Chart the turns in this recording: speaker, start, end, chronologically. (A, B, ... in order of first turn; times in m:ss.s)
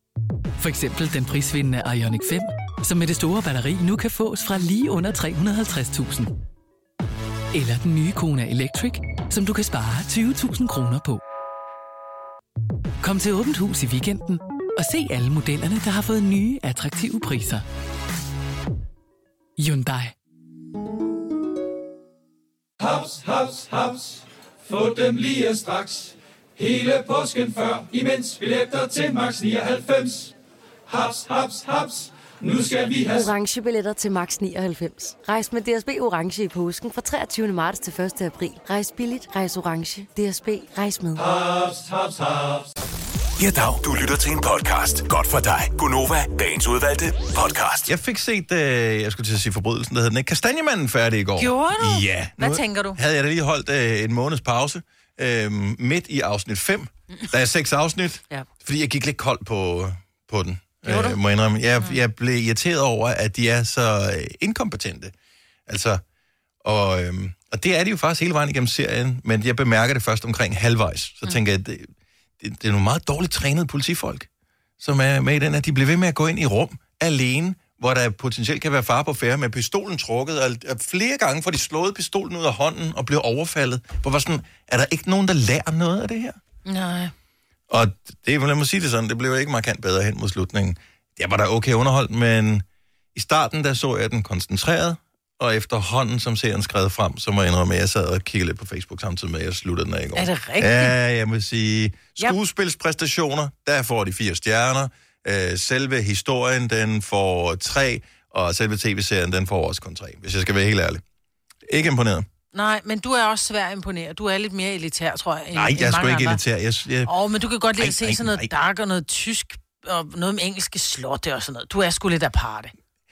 0:00.6-0:06.3 A
0:07.5-0:11.2 A
0:13.0-0:17.6 A
0:19.6-0:20.1 A
0:22.8-0:30.3 B
0:30.9-0:33.3 B
0:33.1-0:41.2 C
0:41.2-0:42.7 B
0:43.4-0:47.9 D
0:47.9-1:05.1 E
0:51.4-0:53.0 F
1:00.9-1:01.2 F
1:05.7-1:06.0 E
1:06.6-1:14.3 E
1:14.8-1:26.4 E
1:26.7-1:27.1 F
1:27.7-1:51.0 E
1:40.2-1:41.0 F
1:51.7-1:52.3 E
1:52.5-1:56.4 F
1:55.5-1:57.1 E
1:57.1-2:02.7 F
1:57.8-1:58.5 E